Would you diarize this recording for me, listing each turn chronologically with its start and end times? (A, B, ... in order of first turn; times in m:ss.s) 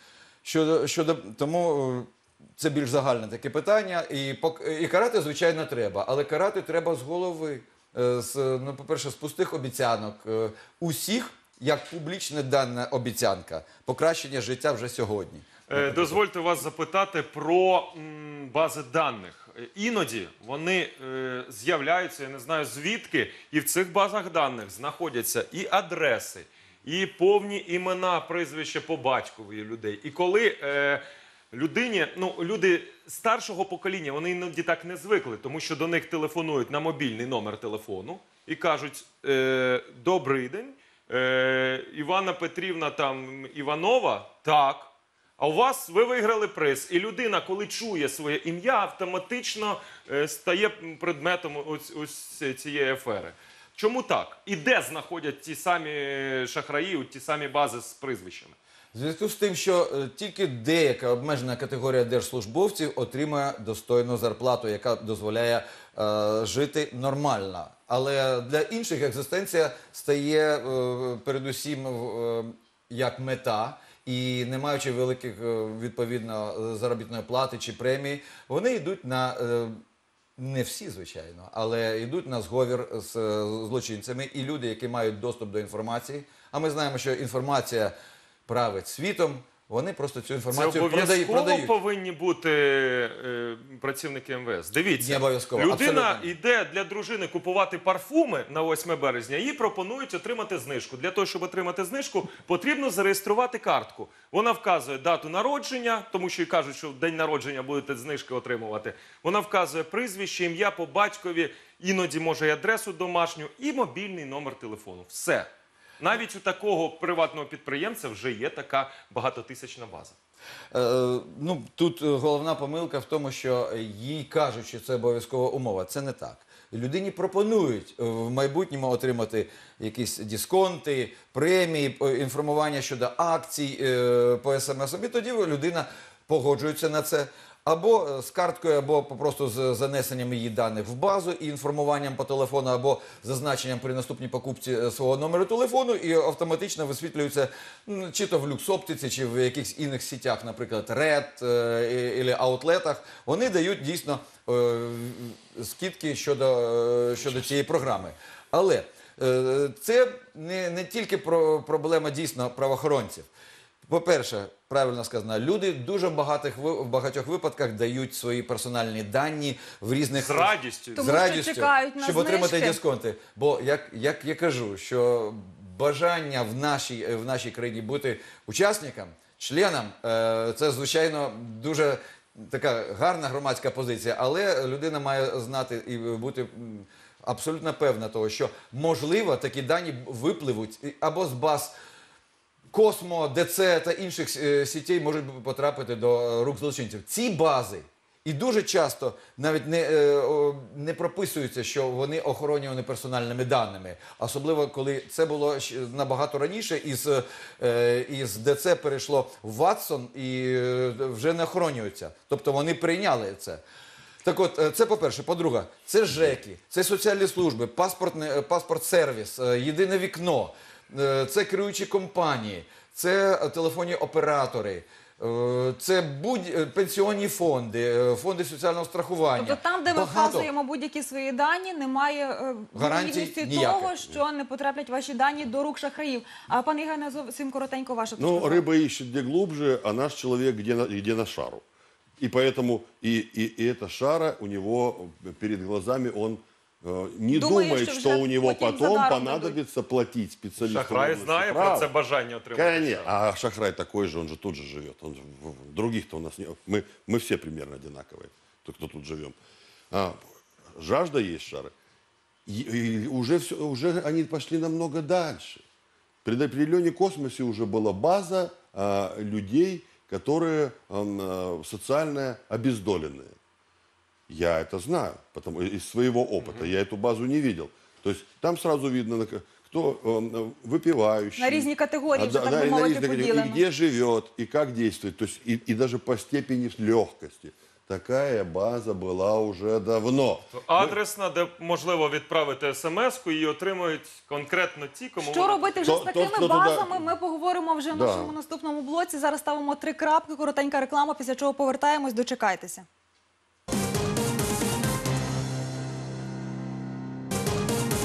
0:00.4-0:16.2 A
0:15.7-0:58.6 B
0:58.9-1:19.8 A
1:20.4-1:27.9 A
1:28.5-1:31.7 A
1:30.5-1:55.5 B
1:35.0-1:36.3 A
1:56.0-2:00.2 B
2:00.7-2:43.3 A
2:43.9-3:11.8 A
2:50.1-2:51.3 B
2:51.0-2:52.8 C
3:12.7-3:33.6 A
3:34.2-3:50.5 A
3:49.4-3:58.6 C
3:52.8-3:54.1 A
3:58.2-4:01.6 D
4:02.2-4:11.9 D
4:07.3-4:09.6 C
4:10.6-4:13.1 B
4:12.5-4:19.4 D
4:19.9-4:20.2 D
4:20.8-4:21.7 D
4:22.5-4:25.6 D
4:26.2-4:33.4 D
4:34.3-4:51.0 D
4:36.4-4:36.7 B
4:41.4-4:43.6 C
4:50.5-4:55.6 B
4:55.2-5:02.9 C
4:55.8-4:57.1 D
4:57.9-4:58.4 D